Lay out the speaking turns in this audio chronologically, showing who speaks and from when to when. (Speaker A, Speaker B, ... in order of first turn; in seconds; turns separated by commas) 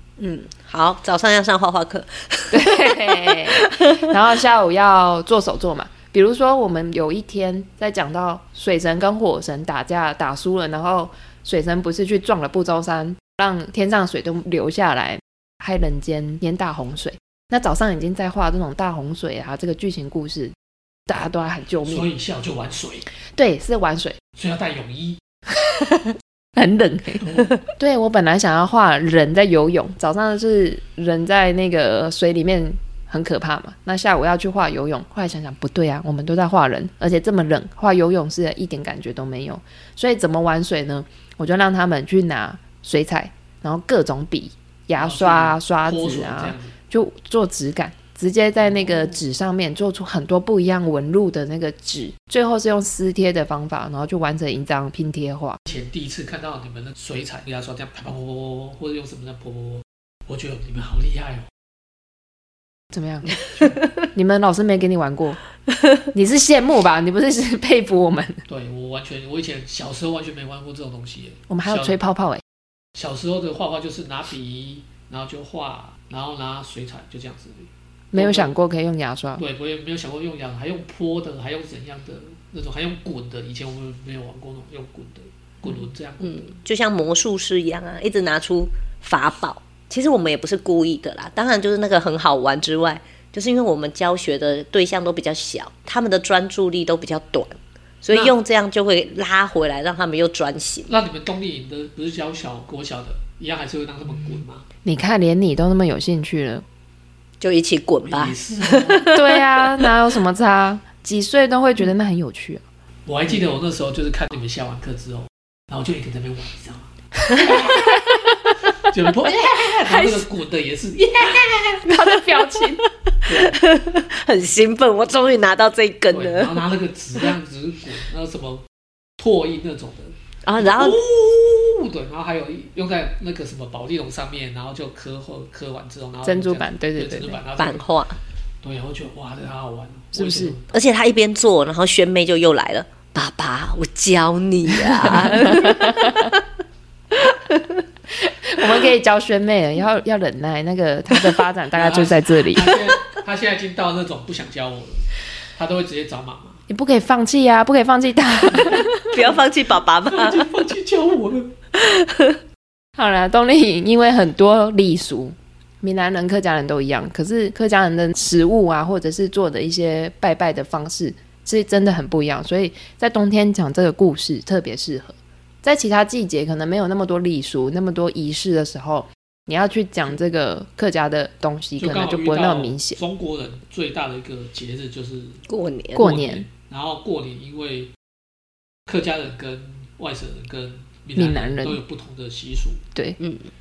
Speaker A: 0.2-4.1, Speaker B: 2.5-20.6, Speaker B: 21.1-22.1, Speaker C: 21.9-23.1, Speaker B: 23.4-24.2, Speaker C: 24.3-25.2, Speaker B: 25.7-55.6, Speaker C: 27.2-27.5, Speaker C: 45.0-46.7, Speaker C: 48.7-49.2, Speaker C: 55.7-61.5, Speaker B: 62.9-63.4, Speaker C: 63.6-63.8, Speaker B: 64.1-65.4, Speaker B: 66.1-68.4, Speaker C: 68.5-72.0, Speaker B: 71.5-72.4, Speaker C: 73.0-78.5, Speaker B: 78.1-79.4, Speaker C: 79.4-86.5, Speaker A: 86.2-100.9, Speaker C: 100.9-104.7, Speaker B: 104.8-106.6, Speaker A: 107.4-109.6, Speaker C: 108.1-109.1, Speaker B: 109.1-112.6, Speaker C: 113.1-118.1, Speaker C: 118.9-122.0, Speaker B: 119.9-120.2, Speaker B: 121.8-122.8, Speaker C: 123.3-123.6, Speaker A: 123.3-126.6, Speaker C: 126.1-128.7, Speaker C: 129.2-137.9, Speaker A: 130.4-131.0, Speaker B: 136.2-137.4, Speaker A: 137.6-138.2, Speaker C: 138.6-140.7, Speaker B: 140.1-140.6, Speaker A: 140.7-146.2, Speaker B: 145.5-146.3, Speaker A: 147.2-147.8, Speaker B: 148.2-152.8, Speaker C: 151.7-156.6, Speaker B: 156.7-159.1, Speaker C: 158.5-158.9, Speaker A: 159.1-160.5, Speaker C: 160.1-161.6, Speaker A: 161.8-162.4, Speaker B: 163.0-183.0, Speaker C: 181.8-187.9, Speaker A: 185.5-186.1, Speaker B: 186.0-186.5, Speaker C: 188.9-192.8, Speaker B: 191.2-191.8, Speaker A: 193.2-193.5